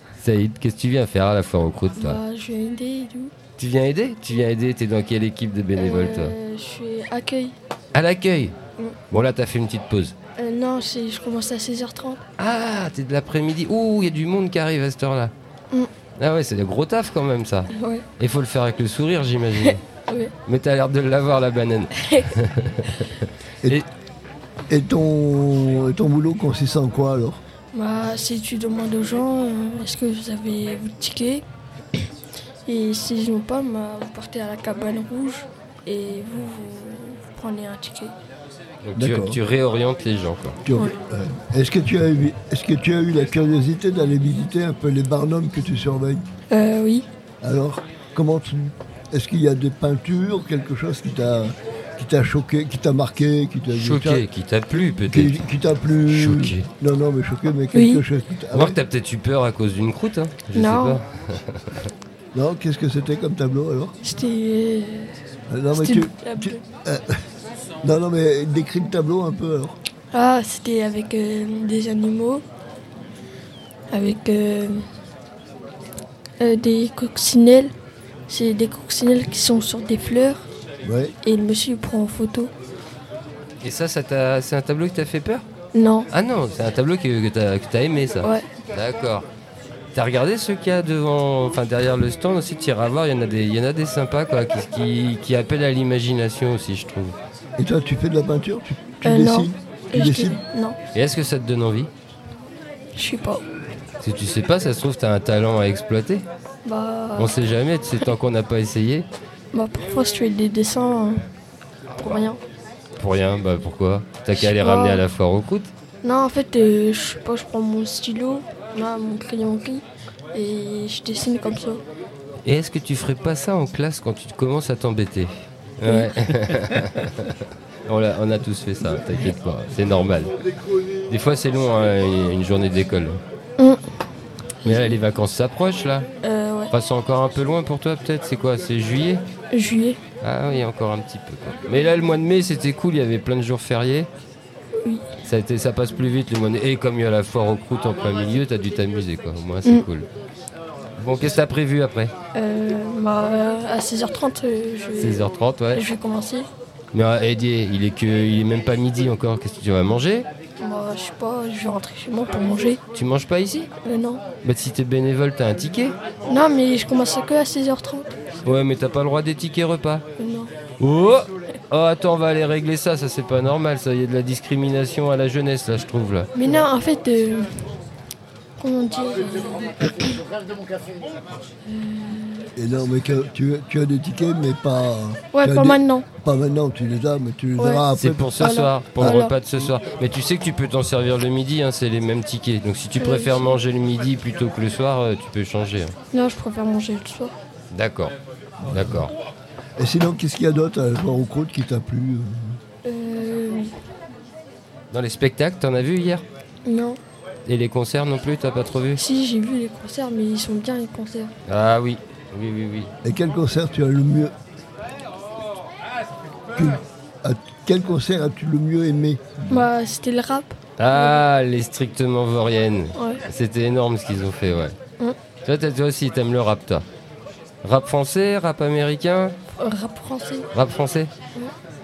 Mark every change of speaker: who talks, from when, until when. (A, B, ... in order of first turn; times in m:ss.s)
0:00.2-0:02.2 A
0:02.0-0:03.3 B
0:03.6-0:06.3 A
0:05.8-0:07.6 B
0:07.9-0:08.6 A
0:09.1-0:10.2 A
0:10.4-0:12.2 B
0:12.4-0:15.3 A
0:16.2-0:19.8 A
0:17.7-0:18.1 B
0:19.6-0:20.3 B
0:20.4-0:23.9 A
0:22.0-0:22.3 B
0:24.7-0:27.4 C
0:27.7-0:31.4 B
0:32.7-0:38.1 B
0:38.8-0:40.6 A
0:39.0-0:39.4 C
0:40.6-0:46.2 C
0:46.5-0:47.1 B
0:47.4-0:54.2 C
0:53.7-0:55.4 A
0:55.1-0:58.8 C
0:56.1-0:56.7 A
0:57.7-0:58.0 B
0:58.5-1:01.9 A
1:00.5-1:01.0 B
1:02.3-1:04.0 C
1:04.0-1:05.2 B
1:05.5-1:07.2 C
1:05.7-1:06.6 B
1:07.8-1:09.8 C
1:10.1-1:12.4 B
1:13.9-1:14.8 B
1:16.4-1:17.7 B
1:18.3-1:20.5 B
1:20.8-1:21.2 C
1:21.2-1:22.5 B
1:23.6-1:25.4 A
1:25.7-1:26.1 B
1:26.1-1:29.3 A
1:29.9-1:37.2 A
1:37.6-1:40.4 C
1:39.0-1:40.8 B
1:40.9-1:41.9 A
1:43.0-1:43.4 B
1:44.0-1:46.2 A
1:46.6-1:47.4 B
1:47.2-1:49.1 A
1:49.5-1:51.2 B
1:52.0-1:52.4 B
1:53.0-1:55.7 A
1:54.3-1:55.0 B
1:56.0-2:01.8 B
2:02.4-2:10.3 A
2:05.9-2:06.1 B
2:11.1-2:13.2 A
2:14.6-2:15.0 B
2:14.6-2:16.1 A
2:16.2-2:16.7 B
2:16.7-2:19.2 A
2:19.5-2:20.0 B
2:20.2-2:24.1 A
2:25.2-2:30.1 A
2:31.0-2:32.1 A
2:32.3-2:36.5 B
2:35.0-2:35.8 A
2:36.9-2:40.3 A
2:40.6-2:42.8 B
2:42.9-2:43.7 A
2:43.8-2:44.2 B
2:44.4-2:46.0 A
2:46.3-2:48.1 B
2:48.4-2:50.0 A
2:50.2-2:50.5 B
2:50.8-2:56.3 A
2:56.3-2:57.7 B
2:58.6-3:00.2 B
3:01.7-3:02.5 B
3:02.6-3:08.4 C
3:05.3-3:06.1 B
3:07.6-3:09.4 B
3:07.9-3:15.9 A
3:13.0-3:13.6 B
3:16.1-3:17.4 B
3:17.7-3:18.1 A
3:18.6-3:19.1 C
3:18.7-3:19.1 A
3:19.8-3:22.6 C
3:22.8-3:23.7 B
3:24.9-3:26.2 A
3:26.6-3:27.0 B
3:27.5-3:29.0 A
3:29.0-3:31.3 B
3:31.5-3:32.9 A
3:33.0-3:34.3 C
3:36.5-3:39.7 C
3:39.5-3:41.2 B
3:40.8-3:44.8 A
3:43.0-3:43.2 B
3:45.4-3:46.8 A
3:47.6-3:49.4 A
3:49.6-3:50.5 B
3:50.5-3:51.1 A